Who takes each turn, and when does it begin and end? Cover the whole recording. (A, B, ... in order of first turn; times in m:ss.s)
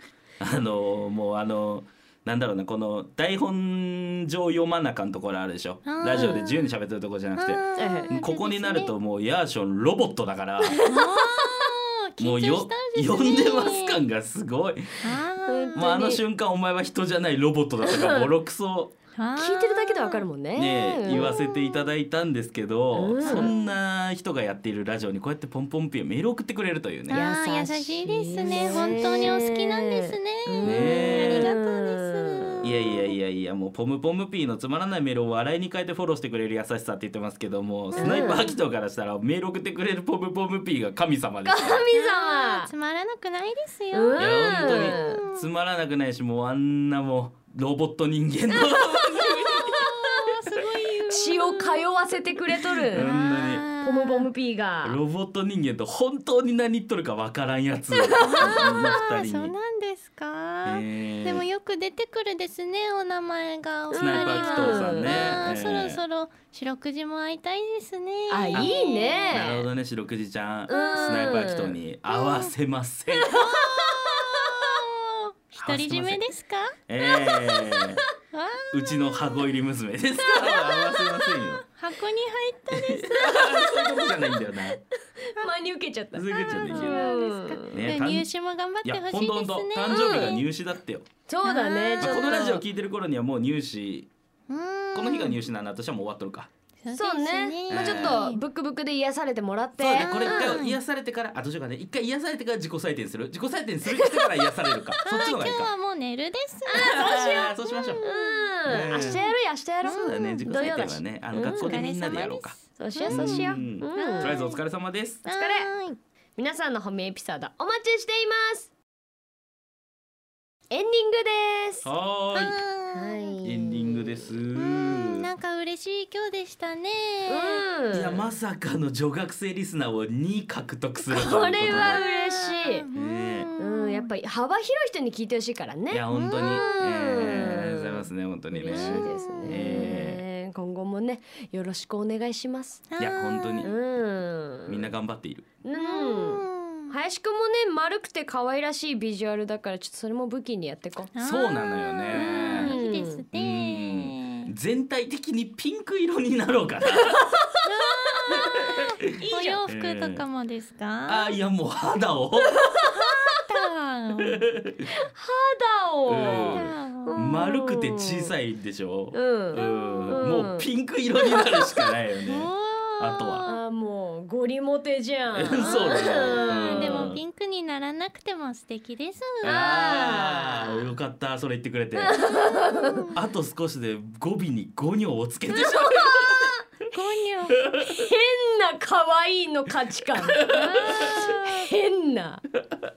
0:00.4-0:10.8 A
0:05.8-0:06.4 B
0:07.4-0:08.9 B
0:07.8-0:08.1 C
0:10.7-0:11.4 C
0:10.8-0:14.0 B
0:12.2-0:15.2 A
0:15.0-0:15.8 B
0:15.4-0:16.2 C
0:15.8-0:18.9 A
0:17.8-0:18.3 C
0:19.2-0:20.2 B
0:19.4-0:21.4 C
0:20.6-0:27.3 A
0:22.9-0:23.5 C
0:23.2-0:23.6 B
0:27.1-0:32.7 B
0:27.1-0:33.0 C
0:28.4-0:29.3 A
0:30.6-0:31.5 A
0:32.6-0:41.8 A
0:38.0-0:38.4 B
0:38.0-0:38.5 C
0:41.4-0:42.7 C
0:41.9-0:45.5 B
0:43.9-0:45.2 C
0:44.2-0:49.9 A
0:48.5-0:50.3 C
0:49.8-0:51.9 B
0:51.1-0:53.1 C
0:52.9-0:53.6 A
0:52.9-0:54.3 B
0:53.8-0:55.0 C
0:54.8-0:59.5 A
0:58.0-0:58.8 C
0:58.2-1:09.3 B
1:00.6-1:01.5 A
1:03.9-1:05.4 C
1:03.9-1:06.0 A
1:08.3-1:09.7 C
1:09.3-1:13.4 A
1:10.7-1:11.8 C
1:10.7-1:11.4 B
1:12.1-1:12.5 B
1:13.1-1:16.8 B
1:13.4-1:14.7 C
1:15.6-1:16.2 A
1:16.9-1:18.0 A
1:17.0-1:17.9 C
1:18.3-1:19.4 B
1:18.7-1:21.6 A
1:20.2-1:21.0 C
1:20.4-1:23.6 B
1:22.7-1:24.8 A
1:23.4-1:27.8 C
1:26.1-1:27.1 A
1:26.3-1:30.4 B
1:27.7-1:28.3 A
1:28.8-1:31.1 A
1:29.9-1:30.4 C
1:31.3-1:32.6 C
1:31.4-1:32.5 B
1:32.0-1:34.1 A
1:34.5-1:35.4 B
1:34.9-1:36.5 A
1:36.8-1:38.4 B
1:36.9-1:40.6 C
1:37.7-1:38.2 A
1:39.8-1:45.7 A
1:39.9-1:40.8 B
1:45.0-1:49.3 B
1:46.7-1:51.9 C
1:46.8-1:48.0 A
1:48.6-1:49.2 A
1:49.8-1:50.5 B
1:49.9-1:52.6 A
1:51.3-1:54.6 B
1:52.8-1:54.3 C
1:53.1-1:55.2 A
1:55.2-1:55.7 C
1:55.2-1:56.0 B
1:56.4-1:58.7 C
2:00.7-2:01.9 C
2:01.8-2:02.6 A
2:02.3-2:03.4 B
2:02.9-2:04.4 C
2:03.4-2:05.3 A
2:04.6-2:07.6 B
2:07.3-2:08.3 C
2:07.9-2:12.0 A
2:11.0-2:12.8 C
2:11.7-2:14.1 B
2:12.9-2:13.5 A
2:13.6-2:22.8 C
2:15.9-2:20.2 A
2:16.1-2:17.4 B
2:18.7-2:20.0 B
2:22.9-2:23.7 B
2:23.0-2:23.7 A
2:23.6-2:24.9 C
2:24.7-2:25.4 A
2:25.6-2:31.1 C
2:25.8-2:26.9 B
2:31.1-2:34.5 B
2:31.2-2:32.7 A
2:32.1-2:33.2 C
2:33.3-2:37.2 A
2:37.6-2:41.3 B
2:38.1-2:38.6 C
2:38.3-2:38.8 A
2:39.2-2:39.6 C
2:39.7-2:40.2 A
2:41.1-2:42.7 A
2:42.6-2:43.3 C
2:42.8-2:44.5 B
2:44.3-2:44.8 A
2:45.1-2:48.3 C
2:46.1-2:53.4 A
2:46.5-2:47.2 B
2:49.1-2:50.7 C
2:49.6-2:50.3 B
2:51.2-2:51.9 C
2:52.2-2:53.6 B
2:53.4-2:57.1 C
2:55.3-2:57.2 A
2:56.5-2:59.6 B
2:59.4-3:02.2 A
2:59.4-3:00.9 C
3:02.0-3:03.1 C
3:02.3-3:03.1 B
3:03.1-3:06.5 A
3:05.5-3:06.6 C
3:06.9-3:07.6 B
3:07.8-3:12.4 C
3:10.3-3:11.2 A
3:11.2-3:11.7 B